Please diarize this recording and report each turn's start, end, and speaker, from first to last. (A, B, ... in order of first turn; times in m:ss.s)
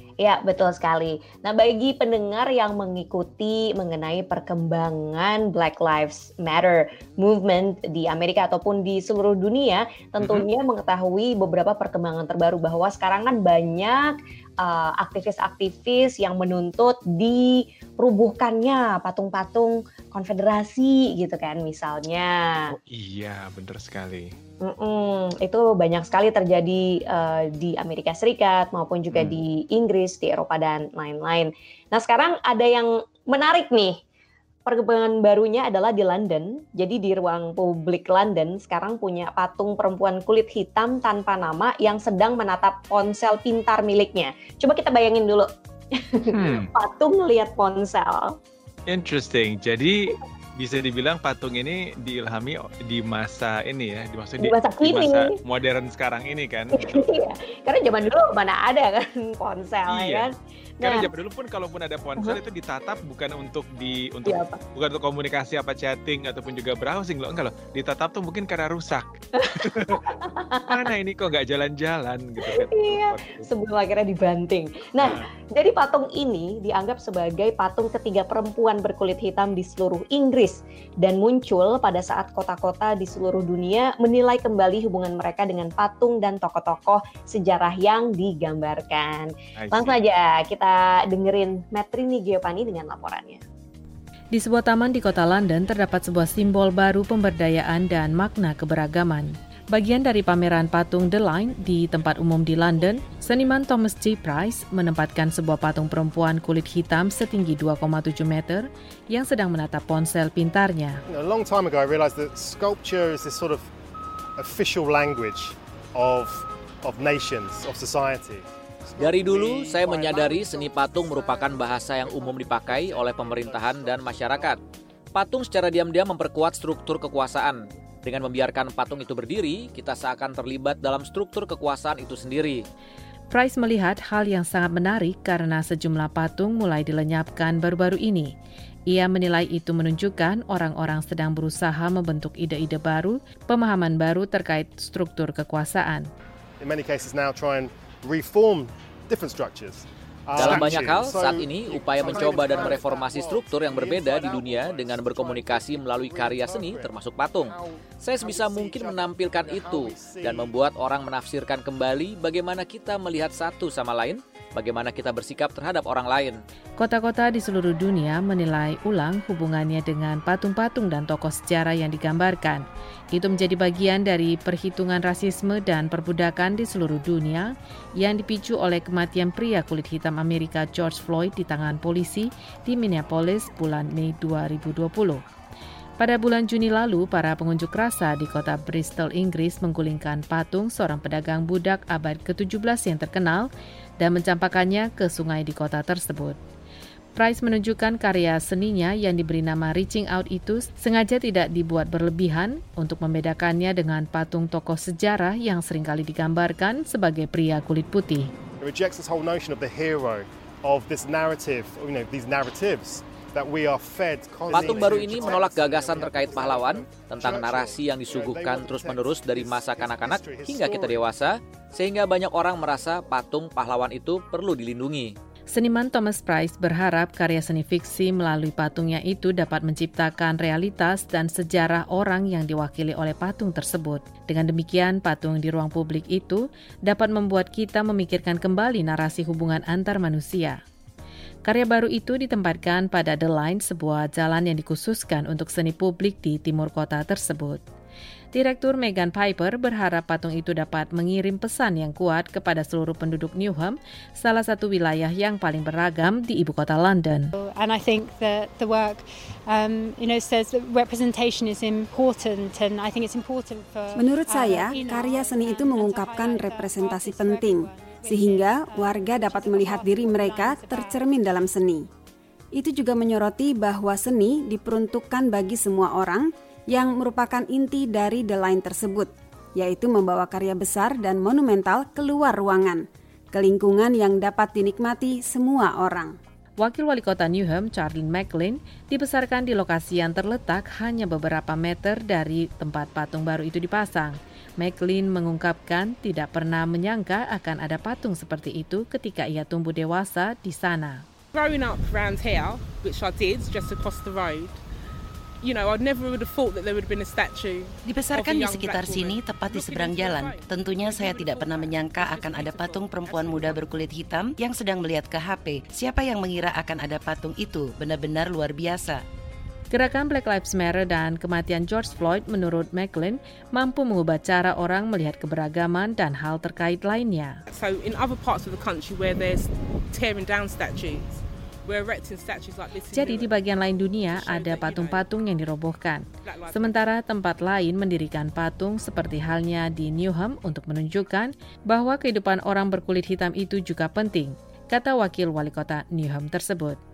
0:00.2-0:22.7 A
0:22.7-0:24.3 B
0:24.6-0:34.0 A
0:29.1-0:29.4 B
0:34.6-0:48.3 A
0:46.3-0:46.7 B
0:48.9-0:57.0 B
0:54.4-0:55.3 A
0:56.7-1:01.1 A
0:59.8-1:00.3 B
1:00.8-1:09.1 B
1:04.2-1:04.6 A
1:09.5-1:10.8 A
1:09.6-1:10.0 B
1:10.7-1:13.5 B
1:12.4-1:33.4 A
1:15.0-1:15.2 B
1:29.6-1:30.0 B
1:34.3-1:51.0 C
1:51.1-1:53.7 D
1:54.4-2:04.6 D
1:59.0-2:04.6 E
2:05.1-2:12.6 E
2:13.3-2:18.3 C
2:18.9-2:26.1 C
2:26.6-2:40.5 D
2:30.4-2:46.4 E
2:46.8-3:05.2 C
3:06.0-3:13.5 C
3:14.0-3:16.4 C
3:17.2-3:28.3 C
3:28.6-3:41.0 D
3:34.5-3:45.1 E
3:45.5-4:00.6 C
4:01.4-4:07.6 C
4:08.3-4:17.3 C
4:17.3-4:31.2 F
4:23.9-4:31.8 G
4:32.5-4:46.2 G
4:46.6-5:01.0 C
5:01.3-5:04.6 H
5:05.4-5:13.7 H
5:07.8-5:19.0 I
5:19.7-5:27.4 C
5:27.5-5:35.1 H
5:32.9-5:46.8 C
5:36.2-5:36.9 H